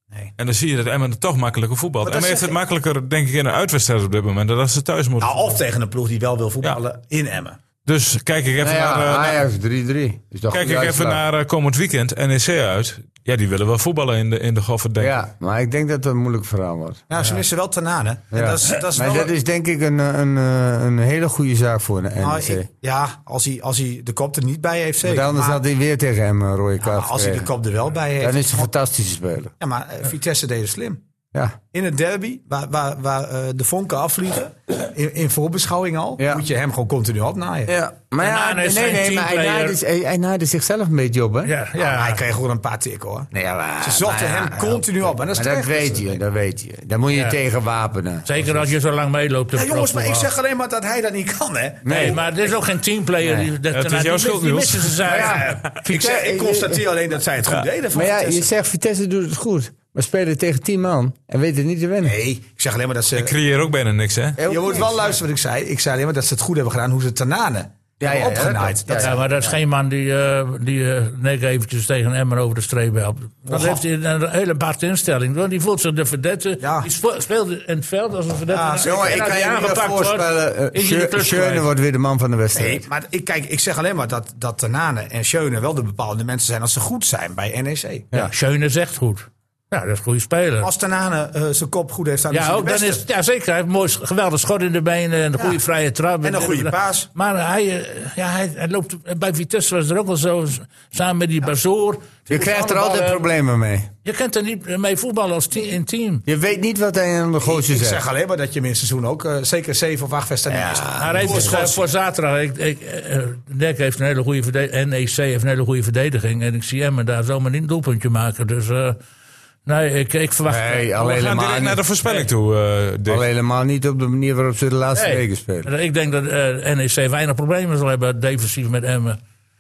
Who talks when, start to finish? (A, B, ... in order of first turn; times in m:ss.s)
0:00.4-0:05.5 A
0:02.0-0:02.5 B
0:05.2-0:07.6 B
0:07.9-0:09.4 A
0:08.6-0:11.2 C
0:10.5-0:15.1 A
0:15.0-0:17.0 C
0:17.1-0:19.3 B
0:18.3-0:22.7 C
0:22.2-0:25.6 B
0:25.0-0:27.5 C
0:26.8-0:28.7 B
0:28.2-0:29.5 C
0:29.6-0:31.0 B
0:31.7-0:37.7 B
0:36.2-0:36.4 C
0:37.7-0:41.5 C
0:38.2-0:39.8 D
0:41.4-0:42.2 D
0:41.8-0:46.2 B
0:43.3-0:48.7 C
0:47.1-0:47.4 D
0:48.2-0:50.3 D
0:49.5-0:52.2 B
0:51.8-0:52.2 C
0:51.9-0:55.6 D
0:53.2-0:53.5 C
0:53.7-0:55.2 A
0:55.1-0:56.9 C
0:55.1-0:58.5 B
0:57.9-1:02.2 C
1:02.0-1:03.3 B
1:03.2-1:04.4 A
1:04.4-1:05.2 C
1:04.4-1:09.1 B
1:08.0-1:09.6 C
1:09.0-1:21.7 D
1:13.5-1:13.8 B
1:16.6-1:16.9 B
1:18.5-1:19.3 B
1:18.8-1:22.9 C
1:22.6-1:28.1 B
1:28.1-1:30.7 D
1:30.6-1:33.0 B
1:32.3-1:43.2 D
1:36.2-1:37.1 B
1:42.3-1:43.9 C
1:44.0-1:46.2 D
1:46.3-1:48.0 C
1:47.4-1:51.9 B
1:50.5-1:51.6 C
1:51.0-1:59.0 D
1:59.7-2:01.3 D
2:00.5-2:01.8 C
2:01.1-2:03.2 A
2:03.1-2:05.7 C
2:05.0-2:09.2 D